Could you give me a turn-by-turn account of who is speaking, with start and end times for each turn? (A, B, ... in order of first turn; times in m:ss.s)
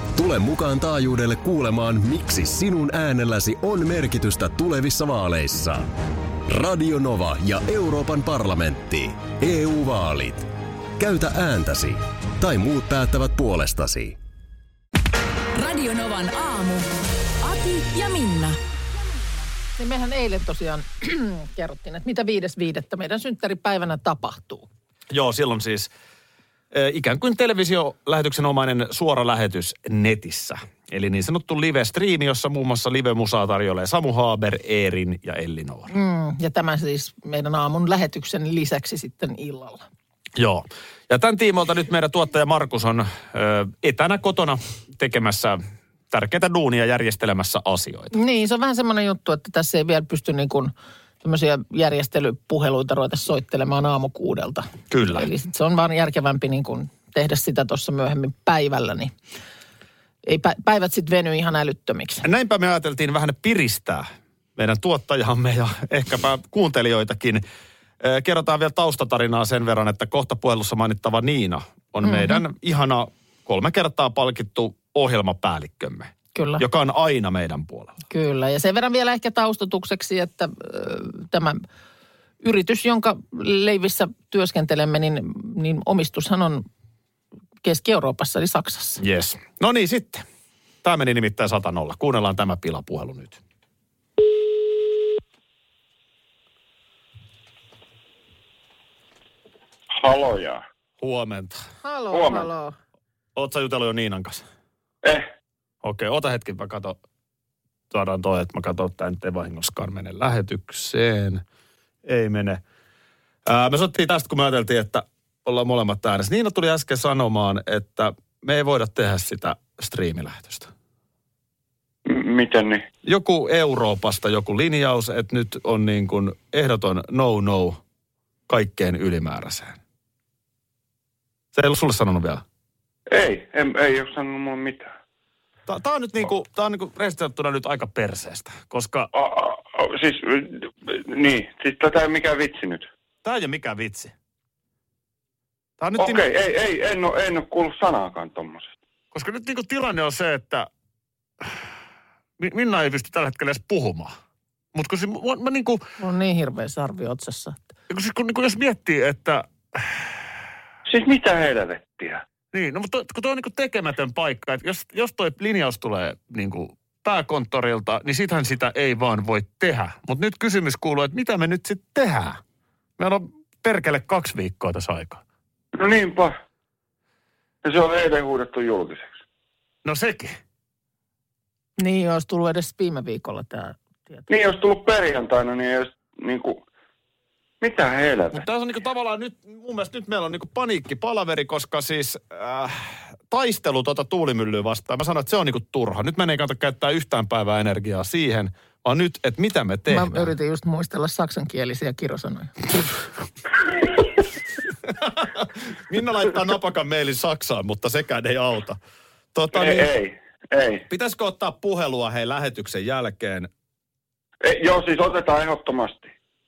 0:00.1-0:05.9 A
0:06.5-0:14.2 A
0:15.5-0:16.9 B
0:17.4-0:18.6 B
0:19.8-0:24.7 C
0:25.1-0:25.9 D
0:26.7-0:35.9 D
0:35.9-0:39.8 C
0:40.4-0:45.6 D
0:46.1-0:48.1 D
0:48.1-0:59.1 C
0:54.9-0:55.3 D
1:00.2-1:02.2 C
1:02.2-1:07.4 D
1:08.0-1:18.0 D
1:12.0-1:12.4 C
1:16.3-1:16.6 C
1:18.1-1:21.6 C
1:22.4-1:26.6 C
1:27.6-1:29.0 C
1:29.0-1:30.2 D
1:30.8-1:33.4 D
1:40.0-1:40.6 E
1:41.0-1:41.6 D
1:41.8-1:42.8 C
1:42.1-1:42.5 E
1:43.4-1:44.4 D
1:45.8-1:46.9 D
1:47.9-1:51.4 D
1:52.0-1:52.6 D
1:53.4-2:00.7 D
2:02.0-2:02.8 E
2:03.0-2:07.8 D
2:08.5-2:09.8 D
2:11.5-2:12.4 D
2:13.1-2:14.9 E
2:15.7-2:19.1 D
2:19.1-2:22.8 E
2:23.2-2:24.1 D
2:25.8-2:26.2 D
2:26.0-2:28.7 E
2:29.1-2:30.7 D
2:32.4-2:34.1 D
2:34.7-2:35.8 D
2:36.0-2:37.6 C
2:37.9-2:39.9 D
2:40.9-2:42.2 E
2:42.5-2:52.4 D
2:53.0-2:55.2 D
2:55.7-2:56.3 E
2:57.6-2:59.2 E
2:59.8-3:00.4 D
3:01.8-3:04.2 C
3:04.3-3:06.6 E
3:07.6-3:08.4 E
3:08.3-3:20.3 D
3:19.9-3:22.7 C
3:25.0-3:28.8 D
3:29.3-3:29.9 D
3:29.6-3:30.8 E
3:30.9-3:33.5 D
3:34.4-3:36.1 E